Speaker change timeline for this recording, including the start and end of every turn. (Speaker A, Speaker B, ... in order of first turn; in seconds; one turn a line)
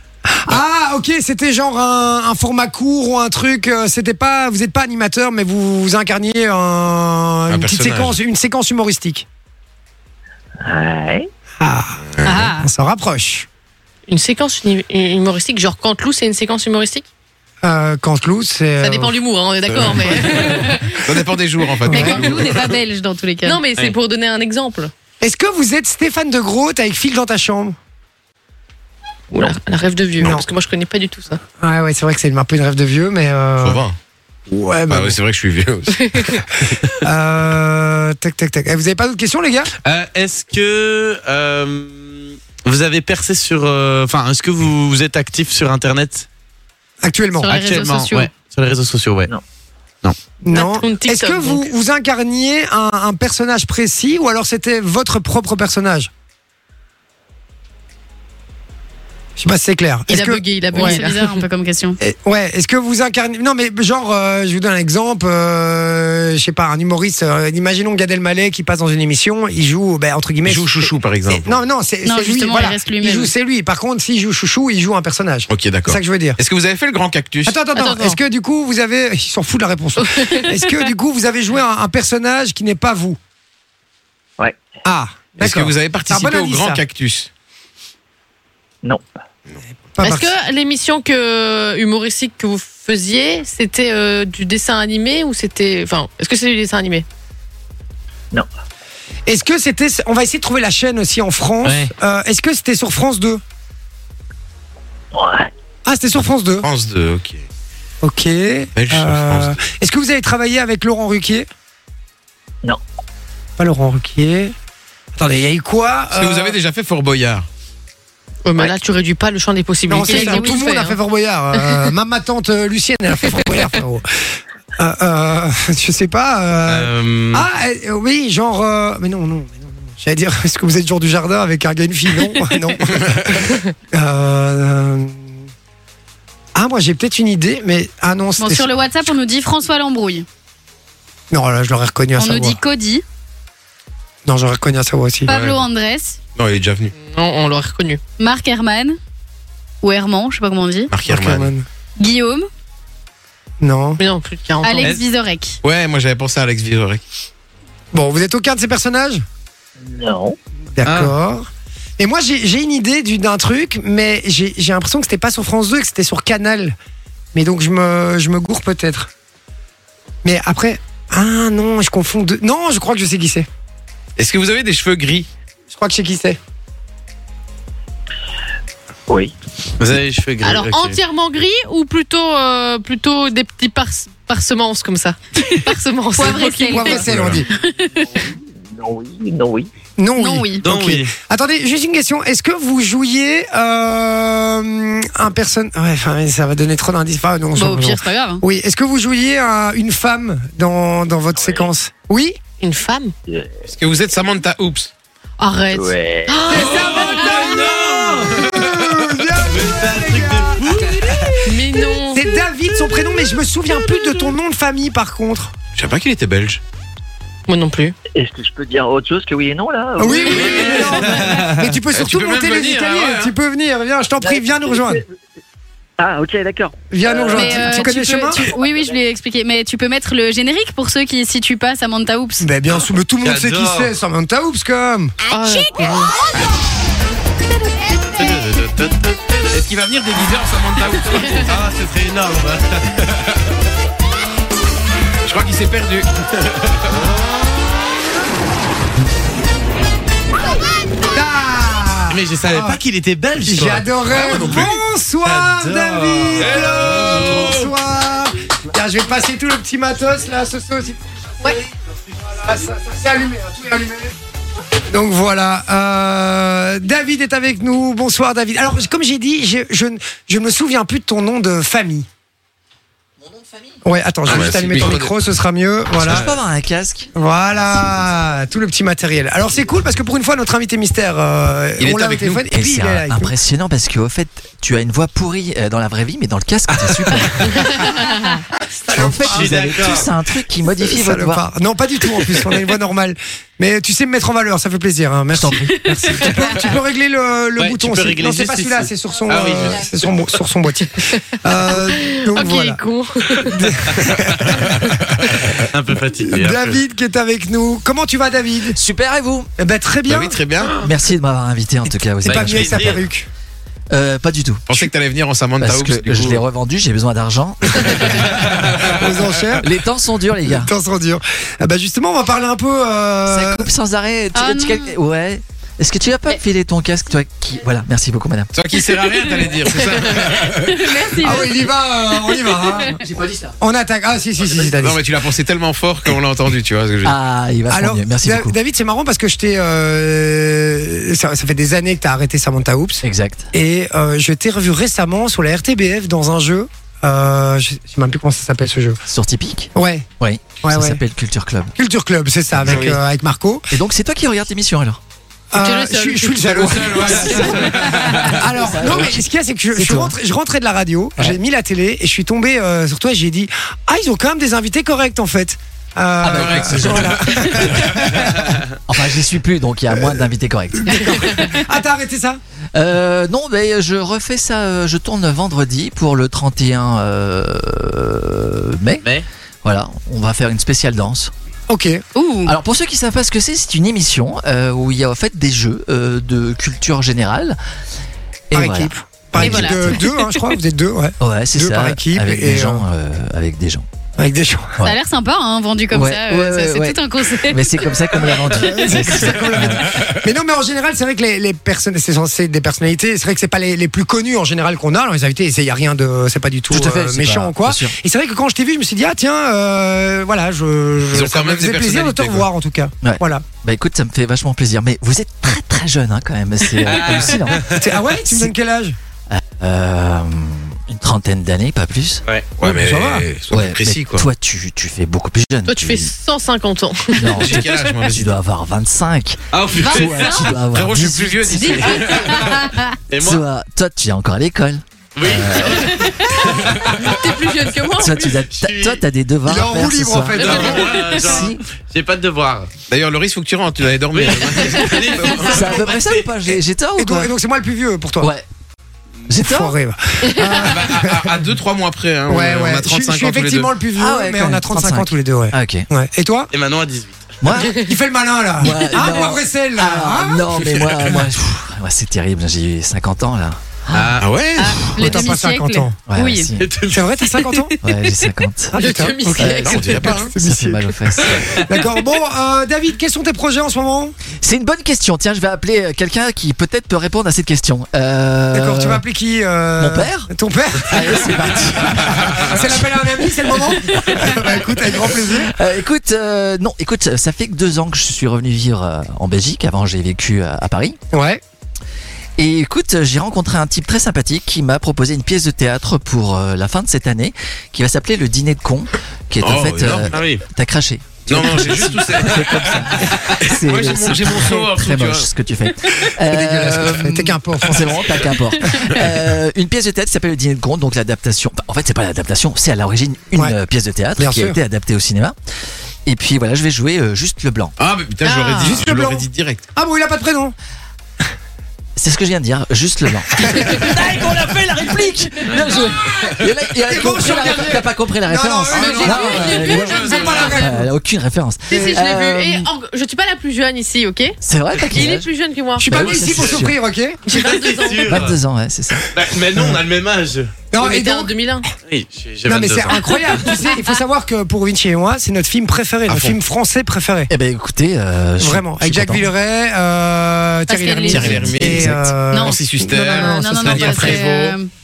Speaker A: 0.3-9.2
Speaker B: 7.5-8.2
Speaker C: 10.6-11.3
Speaker A: 11.6-13.5
Speaker B: 12.2-12.5
Speaker D: 12.2-12.7
Speaker E: 14.1-17.1
Speaker A: 17.6-19.1
Speaker E: 18.8-21.1
Speaker B: 19.7-22.8
Speaker D: 21.9-23.6
Speaker A: 21.9-22.3
Speaker E: 23.4-24.9
Speaker A: 25.2-27.8
Speaker E: 29.3-31.4
Speaker A: 30.2-30.5
Speaker A: 31.6-33.8
Speaker B: 33.6-34.0
Speaker A: 34.5-35.2
Speaker B: 34.9-36.4
Speaker E: 36.0-36.3
Speaker A: 36.9-39.7
Speaker F: 39.9-46.3
Speaker A: 47.0-47.5
Speaker E: 47.5-48.3
Speaker F: 47.5-49.3
Speaker D: 47.5-48.3
Speaker A: 50.4-56.1
Speaker E: 50.5-51.7
Speaker A: 59.4-61.0
Speaker E: 60.1-61.5
Speaker D: 60.7-62.0
Speaker A: 62.0-76.4
Speaker B: 70.5-71.6
Speaker D: 72.0-73.3
Speaker B: 75.5-77.6
Speaker A: 77.5-83.2
Speaker E: 77.8-78.2
Speaker E: 80.0-80.9
Speaker A: 84.8-86.8
Speaker B: 85.4-87.3
Speaker A: 90.0-90.3
Speaker E: 90.0-97.0
Speaker A: 99.3-103.4
Speaker F: 101.6-101.9
Speaker C: 105.1-105.5
Speaker A: 105.9-106.7
Speaker B: 106.6-107.4
Speaker A: 108.0-111.5
Speaker B: 108.8-109.7
Speaker A: 113.6-114.5
Speaker A: 115.2-116.6
Speaker B: 116.1-117.5
Speaker E: 118.5-121.0
Speaker A: 119.9-124.0
Speaker D: 120.0-120.7
Speaker A: 124.8-135.2
Speaker F: 126.7-127.5
Speaker B: 132.9-133.4
Speaker A: 136.6-138.7
Speaker D: 138.4-140.3
Speaker A: 141.3-142.6
Speaker D: 142.2-143.0
Speaker A: 144.3-145.3
Speaker D: 145.3-146.2
Speaker B: 145.3-145.7
Speaker B: 146.4-146.9
Speaker E: 147.0-148.0
Speaker D: 148.2-149.0
Speaker D: 149.8-150.9
Speaker B: 150.9-151.5
Speaker A: 151.0-151.7
Speaker D: 152.0-152.5
Speaker A: 153.6-154.0
Speaker E: 154.0-155.0
Speaker D: 154.6-155.6
Speaker B: 155.6-157.0
Speaker A: 157.9-159.2
Speaker C: 159.8-160.4
Speaker A: 160.8-161.5
Speaker F: 160.8-161.1
Speaker A: 162.0-166.8
Speaker A: 167.3-169.1
Speaker A: 170.2-173.5
Speaker B: 174.2-175.3
Speaker A: 175.7-176.4
Speaker C: 179.1-179.3
Speaker F: 179.8-181.0
Speaker E: 180.4-187.0
Speaker D: 185.4-188.2
Speaker A: 186.7-187.5
Speaker B: 187.0-187.4
Speaker C: 188.2-189.7
Speaker A: 190.0-202.4
Speaker D: 190.2-190.7
Speaker F: 190.6-191.1
Speaker D: 197.6-198.4
Speaker C: 201.4-201.7
Speaker E: 202.6-203.2
Speaker C: 203.3-203.6
Speaker B: 203.7-204.9
Speaker E: 205.4-207.5
Speaker C: 205.7-206.6
Speaker A: 206.5-211.5
Speaker F: 206.5-208.7
Speaker F: 209.4-211.6
Speaker E: 211.4-212.3
Speaker A: 212.1-215.5
Speaker B: 215.8-216.6
Speaker E: 217.5-217.9
Speaker C: 218.1-221.2
Speaker A: 220.0-225.0
Speaker F: 220.4-221.5
Speaker B: 221.9-223.3
Speaker C: 224.2-225.0
Speaker C: 226.0-226.8
Speaker A: 226.9-228.4
Speaker D: 227.2-232.5
Speaker C: 227.4-227.7
Speaker A: 232.4-235.2
Speaker F: 233.2-233.9
Speaker E: 235.3-236.2
Speaker F: 238.2-239.2
Speaker B: 239.5-241.6
Speaker F: 241.4-243.1
Speaker B: 245.3-246.8
Speaker A: 251.1-252.8
Speaker F: 252.1-254.7
Speaker A: 253.4-261.6
Speaker B: 254.2-254.7
Speaker F: 255.2-257.7
Speaker B: 256.4-257.2
Speaker A: 262.3-264.1
Speaker A: 264.9-272.1
Speaker G: 273.2-273.8
Speaker A: 273.9-276.3
Speaker B: 274.3-275.2
Speaker G: 276.0-277.1
Speaker A: 277.1-283.3
Speaker G: 277.7-278.0
Speaker B: 281.8-282.5
Speaker G: 282.5-287.8
Speaker A: 288.8-289.5
Speaker G: 288.9-291.5
Speaker F: 289.2-290.1
Speaker A: 290.9-302.8
Speaker G: 295.3-296.4
Speaker D: 295.7-296.7
Speaker F: 297.6-300.1
Speaker E: 301.7-303.7
Speaker A: 303.4-305.6
Speaker F: 304.1-304.5
Speaker B: 305.2-305.7
Speaker F: 305.7-306.8
Speaker A: 306.2-308.8
Speaker G: 308.8-309.5
Speaker A: 309.6-310.4
Speaker B: 310.1-310.8
Speaker G: 310.8-313.0
Speaker A: 312.2-313.3
Speaker F: 312.2-313.0
Speaker G: 313.9-314.6
Speaker B: 314.7-316.4
Speaker G: 315.6-318.5
Speaker A: 318.8-319.7
Speaker G: 319.6-320.7
Speaker A: 320.5-323.7
Speaker G: 323.3-328.5
Speaker D: 324.3-324.9
Speaker B: 328.5-330.9
Speaker D: 329.1-329.4
Speaker D: 330.4-331.7
Speaker A: 331.2-333.0
Speaker D: 332.3-332.9
Speaker G: 333.1-333.5
Speaker A: 333.6-335.0
Speaker B: 334.8-337.2
Speaker G: 337.0-338.6
Speaker A: 337.7-349.0
Speaker G: 343.0-343.5
Speaker G: 349.1-351.7
Speaker A: 349.8-350.1
Speaker A: 350.6-351.0
Speaker A: 351.8-353.7
Speaker G: 352.5-353.0
Speaker B: 352.7-352.9
Speaker G: 353.7-355.0
Speaker A: 355.5-368.6
Speaker E: 355.6-357.6
Speaker F: 356.6-357.9
Speaker G: 357.0-360.2
Speaker G: 366.2-367.8
Speaker F: 366.3-367.2
Speaker G: 368.9-371.4
Speaker A: 370.8-372.4
Speaker G: 372.7-379.1
Speaker F: 379.0-379.3
Speaker G: 379.6-381.3
Speaker A: 381.7-382.0
Speaker D: 382.1-382.6
Speaker G: 382.5-387.6
Speaker G: 388.5-390.0
Speaker A: 388.5-392.9
Speaker D: 389.4-390.5
Speaker G: 391.2-393.9
Speaker A: 394.2-394.8
Speaker D: 394.8-398.1
Speaker G: 395.9-400.2
Speaker A: 398.5-413.4
Speaker G: 406.7-407.9
Speaker B: 411.1-412.5
Speaker G: 413.0-418.5
Speaker F: 416.8-417.8
Speaker A: 417.7-419.0
Speaker G: 419.3-422.2
Speaker F: 422.2-422.5
Speaker B: 422.6-424.3
Speaker A: 422.6-423.3
Speaker G: 423.5-426.1
Speaker E: 425.7-427.6
Speaker G: 427.2-432.1
Speaker B: 427.3-428.3
Speaker F: 429.5-430.7
Speaker B: 430.6-432.3
Speaker E: 431.6-432.4
Speaker D: 431.8-433.0
Speaker F: 432.2-432.4
Speaker F: 433.1-433.4
Speaker G: 433.2-436.0
Speaker F: 435.2-437.1
Speaker D: 436.0-436.4
Speaker G: 436.6-436.9
Speaker E: 437.0-438.4
Speaker G: 438.0-441.6
Speaker F: 438.3-439.0
Speaker A: 439.5-441.1
Speaker F: 440.3-442.7
Speaker B: 442.9-445.7
Speaker F: 444.1-446.2
Speaker G: 445.4-447.3
Speaker A: 447.0-448.3
Speaker G: 448.2-448.4
Speaker G: 449.3-449.8
Speaker A: 449.4-451.4
Speaker B: 450.4-453.8
Speaker A: 452.3-456.5
Speaker G: 453.9-455.9
Speaker F: 456.5-457.4
Speaker G: 457.4-457.8
Speaker A: 457.7-460.6
Speaker G: 458.6-464.3
Speaker F: 463.9-464.4
Speaker B: 464.2-464.8
Speaker D: 464.6-466.5
Speaker A: 464.9-465.9
Speaker G: 466.1-466.7
Speaker F: 466.6-467.7
Speaker A: 466.9-467.7
Speaker G: 467.8-471.6
Speaker A: 468.7-474.1
Speaker E: 468.8-470.3
Speaker B: 469.7-470.3
Speaker G: 474.4-479.1
Speaker A: 478.5-485.5
Speaker G: 479.8-491.0
Speaker A: 491.1-491.4
Speaker G: 492.4-515.4
Speaker B: 499.4-500.2
Speaker F: 500.1-500.4
Speaker B: 501.3-505.3
Speaker F: 501.4-502.9
Speaker A: 506.2-508.2
Speaker A: 514.2-514.6
Speaker G: 516.1-517.8
Speaker B: 517.8-519.6
Speaker E: 518.2-518.8
Speaker A: 518.6-520.5
Speaker G: 522.0-532.7
Speaker A: 523.4-523.8
Speaker A: 526.9-530.9
Speaker B: 528.7-530.3
Speaker E: 528.8-530.4
Speaker E: 531.7-536.3
Speaker A: 531.7-532.1
Speaker G: 534.4-535.3
Speaker A: 535.8-537.3
Speaker G: 535.9-536.8
Speaker E: 537.3-538.3
Speaker F: 537.3-538.4
Speaker G: 538.1-539.1
Speaker F: 539.1-540.5
Speaker A: 540.7-541.4
Speaker E: 540.8-541.7
Speaker F: 541.8-543.4
Speaker A: 542.5-547.3
Speaker B: 546.1-546.4
Speaker G: 547.3-549.3
Speaker A: 548.4-554.2
Speaker D: 550.7-551.6
Speaker B: 551.0-554.6
Speaker G: 551.1-552.1
Speaker D: 552.3-554.7